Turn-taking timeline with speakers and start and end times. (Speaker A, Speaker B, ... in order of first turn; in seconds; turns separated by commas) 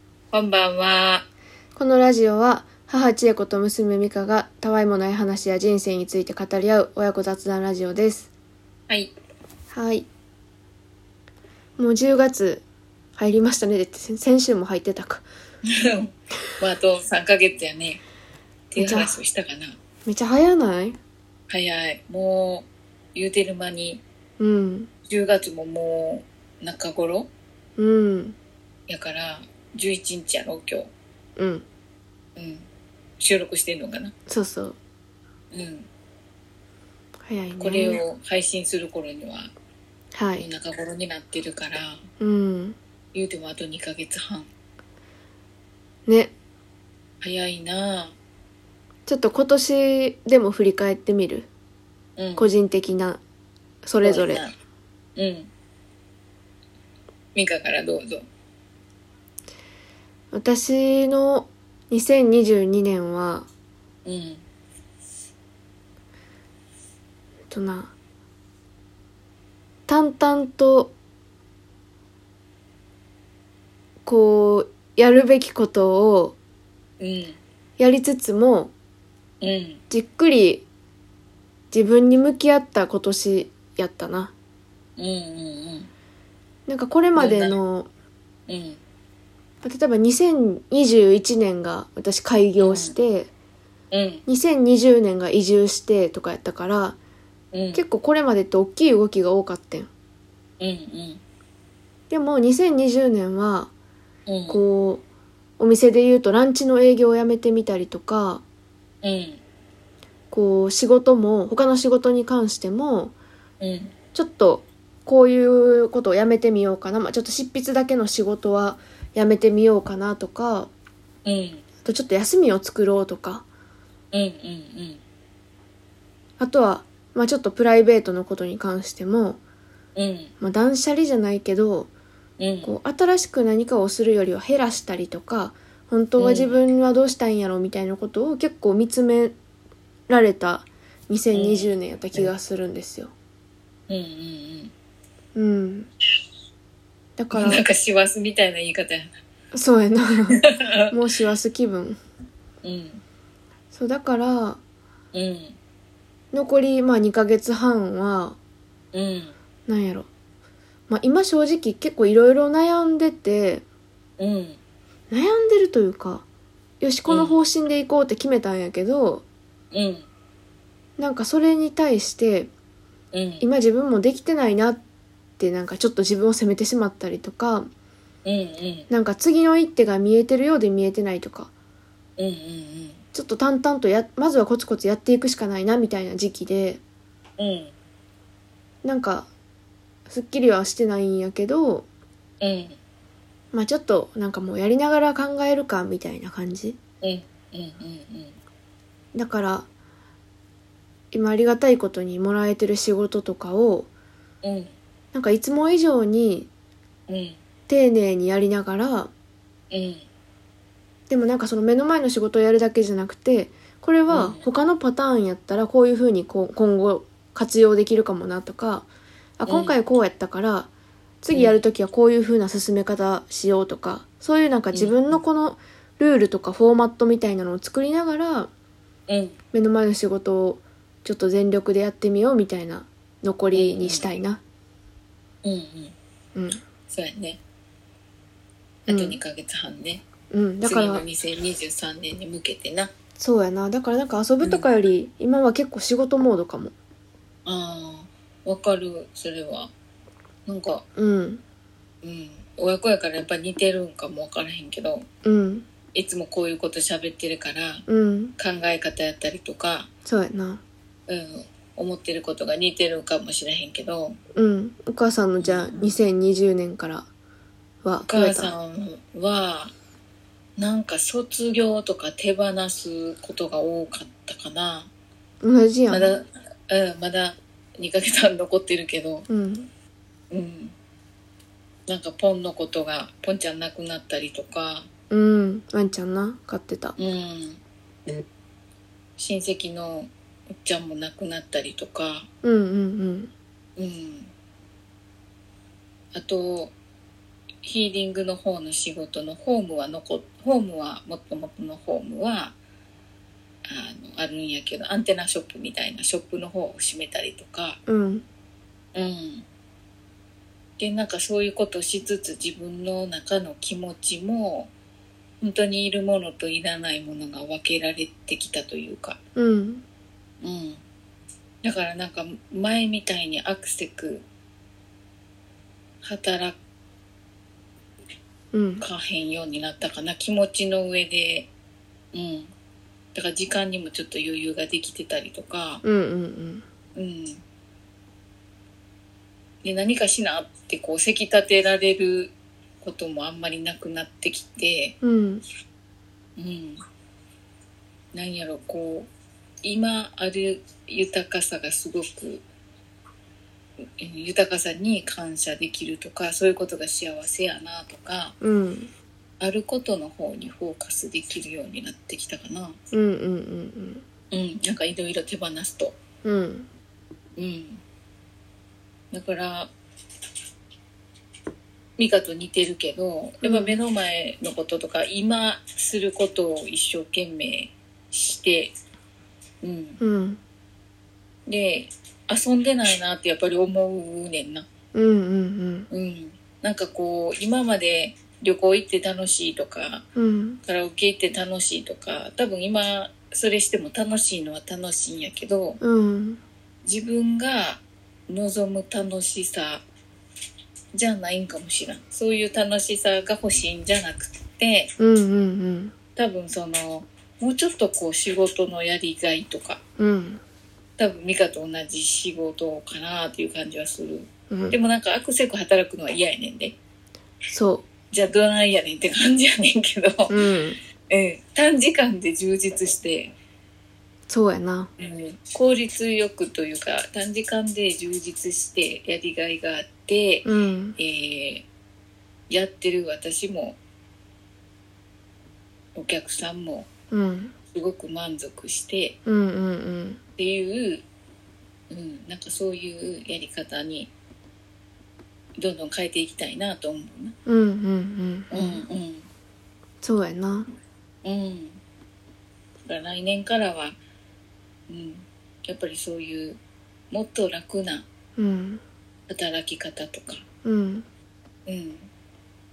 Speaker A: 0.3-1.2, Speaker B: 1.8-8.3, Speaker B: 9.7-10.1, Speaker B: 11.8-12.6, Speaker B: 13.2-15.2, Speaker A: 15.7-18.0, Speaker A: 18.7-19.8, Speaker B: 18.8-19.1, Speaker B: 20.1-21.0, Speaker A: 21.5-24.0, Speaker B: 24.4-24.9, Speaker A: 25.1-27.3, Speaker B: 27.8-28.4, Speaker A: 28.9-30.9, Speaker B: 31.4-31.6, Speaker A: 32.4-32.7, Speaker A: 33.2-34.1, Speaker B: 34.3-34.8, Speaker A: 35.5-35.9, Speaker B: 37.2-38.0, Speaker A: 37.6-39.5, Speaker B: 40.1-40.5, Speaker A: 40.4-42.1, Speaker B: 42.2-42.8, Speaker A: 43.1-44.5, Speaker B: 46.1-46.3, Speaker A: 47.2-48.1, Speaker B: 49.1-51.5, Speaker A: 52.2-52.5, Speaker B: 52.4-53.2, Speaker B: 53.8-54.4, Speaker A: 54.0-54.5, Speaker A: 55.1-55.5, Speaker A: 57.3-58.2, Speaker B: 60.3-63.5, Speaker A: 64.0-64.4, Speaker B: 67.5-67.9, Speaker B: 69.9-70.9, Speaker B: 74.0-76.3, Speaker A: 77.0-77.4, Speaker B: 77.8-78.7, Speaker A: 79.4-79.8, Speaker B: 79.9-80.6, Speaker B: 81.7-84.3, Speaker A: 85.0-85.9, Speaker B: 86.7-87.9, Speaker A: 87.1-87.6, Speaker A: 88.5-88.8, Speaker B: 89.6-93.3, Speaker A: 92.6-92.9, Speaker A: 93.9-94.2, Speaker B: 94.2-97.0, Speaker A: 97.5-97.8, Speaker B: 97.7-99.9, Speaker A: 100.6-101.2, Speaker B: 102.1-103.7, Speaker A: 104.3-104.6, Speaker B: 104.5-105.0, Speaker B: 105.6-108.4, Speaker A: 109.0-109.4, Speaker B: 110.3-113.1, Speaker A: 113.6-113.9, Speaker B: 114.1-120.7, Speaker A: 121.2-121.6, Speaker B: 121.8-123.4, Speaker A: 124.1-125.0, Speaker B: 126.4-129.4, Speaker A: 129.9-130.3, Speaker B: 130.4-131.9, Speaker A: 132.4-132.7, Speaker B: 132.6-139.3, Speaker A: 136.2-136.6, Speaker B: 140.1-143.1, Speaker A: 141.3-141.7, Speaker A: 143.9-144.7, Speaker B: 145.3-145.9, Speaker B: 147.2-147.6, Speaker A: 147.3-149.1, Speaker B: 149.5-152.0, Speaker A: 150.3-150.9, Speaker A: 152.6-153.0, Speaker B: 153.7-154.6, Speaker A: 155.1-155.6, Speaker B: 156.3-158.3, Speaker A: 158.9-159.3, Speaker B: 159.7-160.1, Speaker B: 160.9-163.6, Speaker A: 164.2-164.6, Speaker B: 165.1-166.2, Speaker B: 166.8-169.2, Speaker A: 167.1-167.4, Speaker A: 169.7-170.1, Speaker B: 171.0-172.5, Speaker A: 173.1-173.4, Speaker B: 173.4-174.8, Speaker B: 175.4-177.7, Speaker A: 178.2-178.9, Speaker B: 178.9-181.5, Speaker A: 182.2-183.0, Speaker B: 183.1-186.8, Speaker A: 187.4-187.7, Speaker B: 188.8-189.3, Speaker B: 190.1-191.8, Speaker A: 192.4-192.8, Speaker B: 193.5-196.8, Speaker A: 197.0-198.3, Speaker B: 199.1-199.7, Speaker B: 201.1-203.9, Speaker A: 204.4-204.7, Speaker B: 205.1-206.5, Speaker A: 207.1-207.4, Speaker B: 207.7-209.1, Speaker A: 209.7-210.0, Speaker B: 211.1-218.9, Speaker A: 214.1-214.4, Speaker B: 219.4-220.7, Speaker A: 219.5-219.8, Speaker B: 221.2-228.5, Speaker A: 221.3-221.6, Speaker A: 224.7-225.2, Speaker A: 229.1-229.3, Speaker B: 229.5-234.4, Speaker A: 233.5-234.1, Speaker A: 235.4-235.9, Speaker B: 236.3-236.6, Speaker A: 236.9-237.4, Speaker B: 238.9-239.2, Speaker A: 238.9-240.0, Speaker B: 240.3-241.0, Speaker A: 240.6-242.9, Speaker B: 243.2-246.7, Speaker A: 247.4-249.7, Speaker A: 250.4-250.8, Speaker B: 250.9-251.4, Speaker A: 252.0-255.1, Speaker B: 255.2-255.7, Speaker A: 255.9-257.9, Speaker B: 257.9-258.3, Speaker A: 258.4-259.9, Speaker B: 260.0-260.6, Speaker A: 261.1-264.2, Speaker B: 264.3-267.1, Speaker A: 265.4-266.0, Speaker B: 267.8-268.5, Speaker A: 268.0-269.7, Speaker A: 270.6-274.9, Speaker B: 275.4-276.1, Speaker A: 275.9-279.3, Speaker B: 279.3-279.7, Speaker A: 280.3-280.7, Speaker A: 281.9-284.9, Speaker B: 285.1-286.9, Speaker A: 287.0-288.1, Speaker A: 289.2-290.1, Speaker A: 290.6-292.3, Speaker B: 292.4-293.3, Speaker A: 293.8-294.3, Speaker A: 296.1-296.7, Speaker A: 297.6-302.5, Speaker A: 303.6-307.8, Speaker B: 307.9-308.2, Speaker A: 308.9-309.4, Speaker A: 310.8-314.7, Speaker A: 315.4-319.2, Speaker B: 319.4-319.8, Speaker A: 320.4-320.8, Speaker A: 321.6-324.2, Speaker A: 326.0-326.6, Speaker B: 328.5-328.8, Speaker A: 328.8-331.5, Speaker A: 332.1-332.5, Speaker A: 333.1-335.8, Speaker B: 335.8-336.6, Speaker A: 336.9-337.4, Speaker A: 339.6-344.9, Speaker B: 345.0-345.4, Speaker A: 346.4-346.8, Speaker A: 348.1-349.1, Speaker A: 349.6-352.4, Speaker A: 354.0-358.4, Speaker B: 358.4-358.9, Speaker A: 359.4-362.8, Speaker B: 362.9-364.0, Speaker A: 364.3-366.0, Speaker B: 366.2-366.7, Speaker A: 367.4-367.8, Speaker A: 369.1-369.7, Speaker A: 372.0-378.7, Speaker B: 373.4-373.7, Speaker A: 379.6-380.0, Speaker B: 380.0-380.4, Speaker A: 381.5-384.7, Speaker B: 384.9-385.9, Speaker A: 385.9-390.1, Speaker B: 390.1-390.6, Speaker A: 390.6-395.8, Speaker B: 395.8-396.4, Speaker A: 396.8-399.8, Speaker A: 400.9-404.9, Speaker B: 405.0-405.9, Speaker A: 406.1-409.8, Speaker B: 410.0-410.4, Speaker A: 411.0-416.8, Speaker B: 414.5-414.8, Speaker B: 417.5-417.8, Speaker A: 418.1-420.4, Speaker B: 420.3-420.8, Speaker A: 421.1-423.3, Speaker B: 424.3-424.9, Speaker A: 425.0-431.6, Speaker B: 430.4-431.0, Speaker A: 432.5-433.8, Speaker A: 435.9-436.9, Speaker B: 437.1-437.5, Speaker A: 437.7-439.2, Speaker B: 439.2-440.2, Speaker A: 440.4-441.0, Speaker A: 441.9-444.1, Speaker A: 445.6-447.4, Speaker B: 447.4-448.8, Speaker A: 448.5-449.3, Speaker B: 450.0-450.7, Speaker A: 451.2-451.8, Speaker A: 452.8-454.0, Speaker A: 454.9-456.6, Speaker A: 457.1-458.1, Speaker B: 458.4-458.8, Speaker A: 459.3-460.4, Speaker B: 460.6-461.1, Speaker A: 461.7-462.1